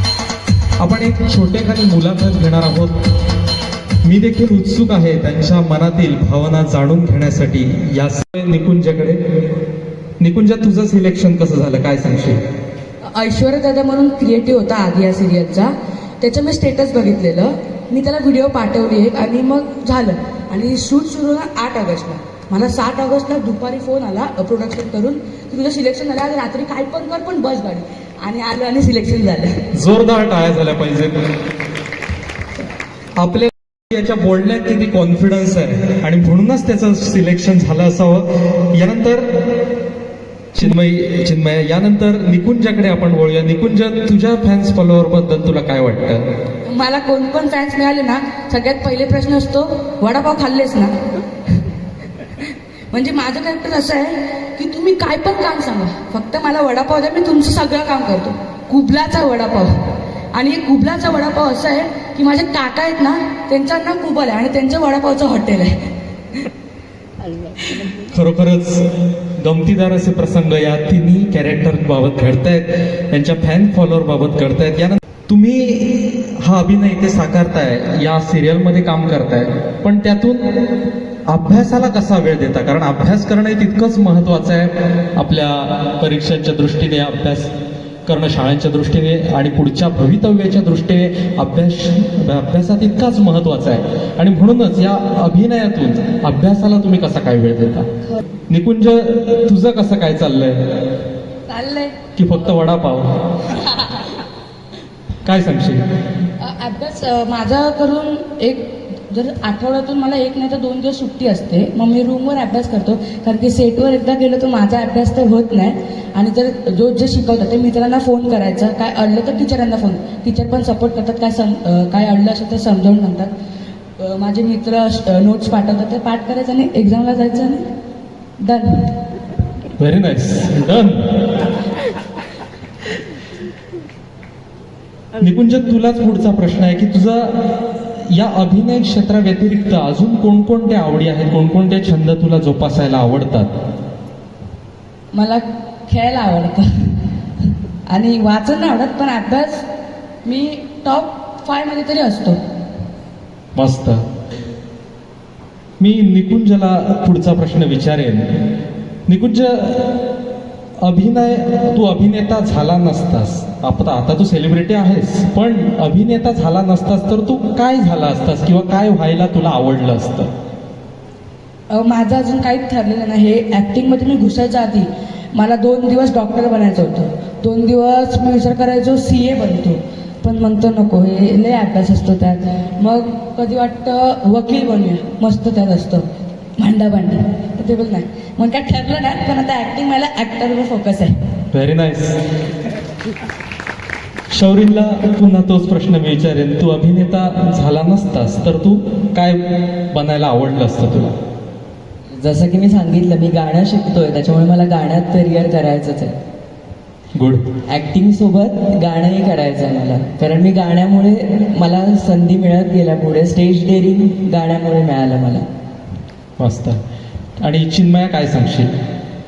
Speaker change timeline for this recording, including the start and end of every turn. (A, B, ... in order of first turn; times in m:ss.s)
0:00.8-0:03.1 A
0:04.0-0:09.2 A
0:10.2-0:12.4 A
0:13.0-0:29.5 B
0:29.7-0:31.2 A
0:33.2-0:39.6 A
0:40.5-0:46.3 A
0:46.7-0:50.9 B
0:52.9-0:59.7 B
1:00.3-1:05.7 B
1:07.9-1:20.8 A
1:21.3-1:27.5 A
1:28.1-1:37.9 A
1:38.5-1:40.6 A
1:41.5-1:42.0 B
1:42.2-1:43.2 A
1:43.8-1:44.1 B
1:45.2-1:45.8 A
1:46.4-2:03.3 B
2:04.0-2:07.6 B
2:08.4-2:08.9 B
2:09.8-2:11.4 A
2:15.2-2:23.5 A
2:25.1-2:27.0 B
2:27.9-2:29.6 B
2:30.2-2:32.4 B
2:33.6-2:34.0 A
2:35.8-2:38.5 A
2:39.1-2:40.1 A
2:40.8-2:50.3 A
2:51.7-3:06.0 B
3:06.6-3:11.2 B
3:11.5-3:12.2 A
3:14.3-3:21.2 A
3:22.2-3:26.2 C
3:27.2-3:27.5 A
3:27.7-3:35.5 C
3:36.4-3:36.8 A
3:37.4-3:38.7 A